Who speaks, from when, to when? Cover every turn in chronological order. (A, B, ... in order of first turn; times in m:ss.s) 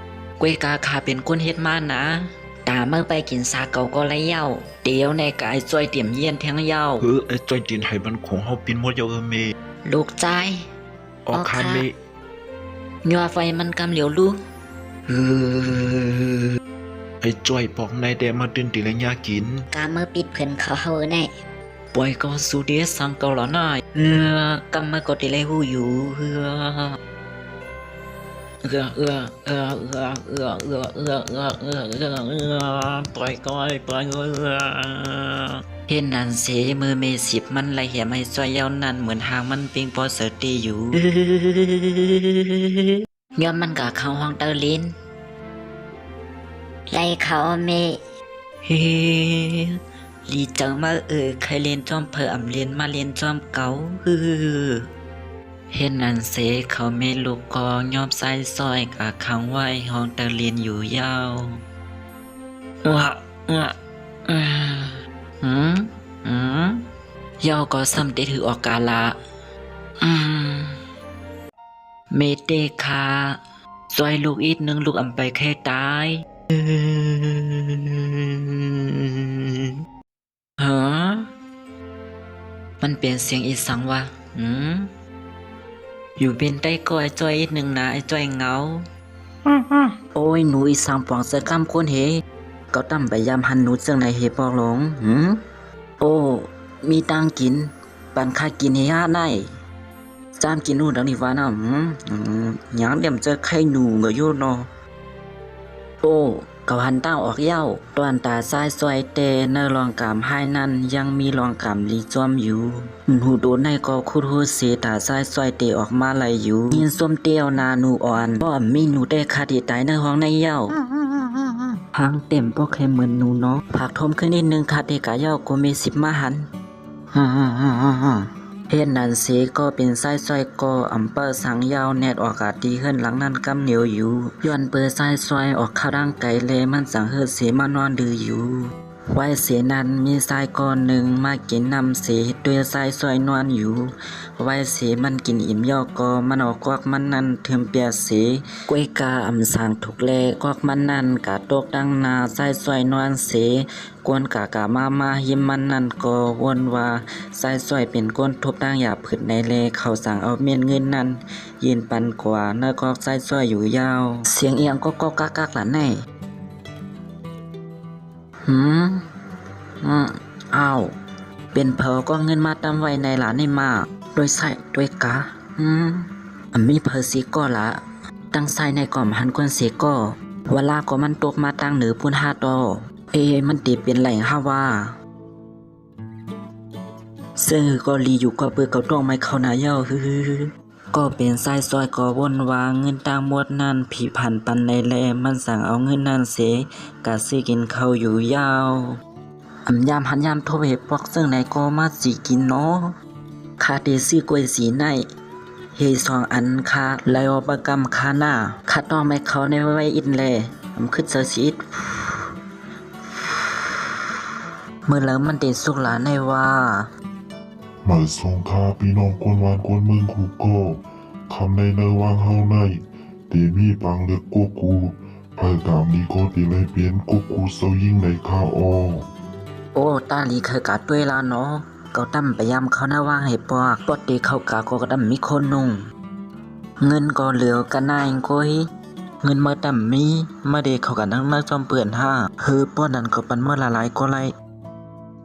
0:00.4-0:07.1 A
0:07.0-0:09.5 B
0:09.9-0:10.6 A
0:11.3-0:11.9 B
0:11.3-0:11.9 C
0:13.0-0:14.4 A
0:15.1-0:16.6 A
0:17.2-0:19.6 B
0:19.7-0:21.3 C
0:21.9-0:27.0 A
0:28.6-0:44.9 A
0:46.9-0:48.0 C
0:48.6-0:54.9 A
0:55.7-1:01.6 A
1:02.8-1:03.7 A
1:04.3-1:06.8 A
1:07.4-1:09.2 A
1:10.0-1:10.8 A
1:12.1-1:13.4 A
1:13.9-1:19.4 A
1:20.6-1:21.3 A
1:22.8-1:24.9 A
1:26.2-1:28.8 A
1:29.5-1:32.2 A
1:32.7-1:35.4 A
1:36.0-1:39.5 A
1:40.4-1:44.7 A
1:46.0-2:00.8 A
2:01.9-2:06.4 A
2:07.1-2:18.6 A
2:19.1-2:46.0 A
2:48.4-2:49.0 A
2:49.8-2:50.9 A
2:51.5-2:57.8 A
2:58.3-3:04.9 A
3:07.4-3:19.0 A
3:19.7-3:22.9 A
3:23.6-3:25.0 A
3:25.8-3:32.2 A
3:34.9-3:36.9 A
3:37.8-3:42.8 D
3:43.3-3:49.1 D
3:49.8-3:55.8 A
3:56.8-3:58.6 A
3:59.2-4:04.3 A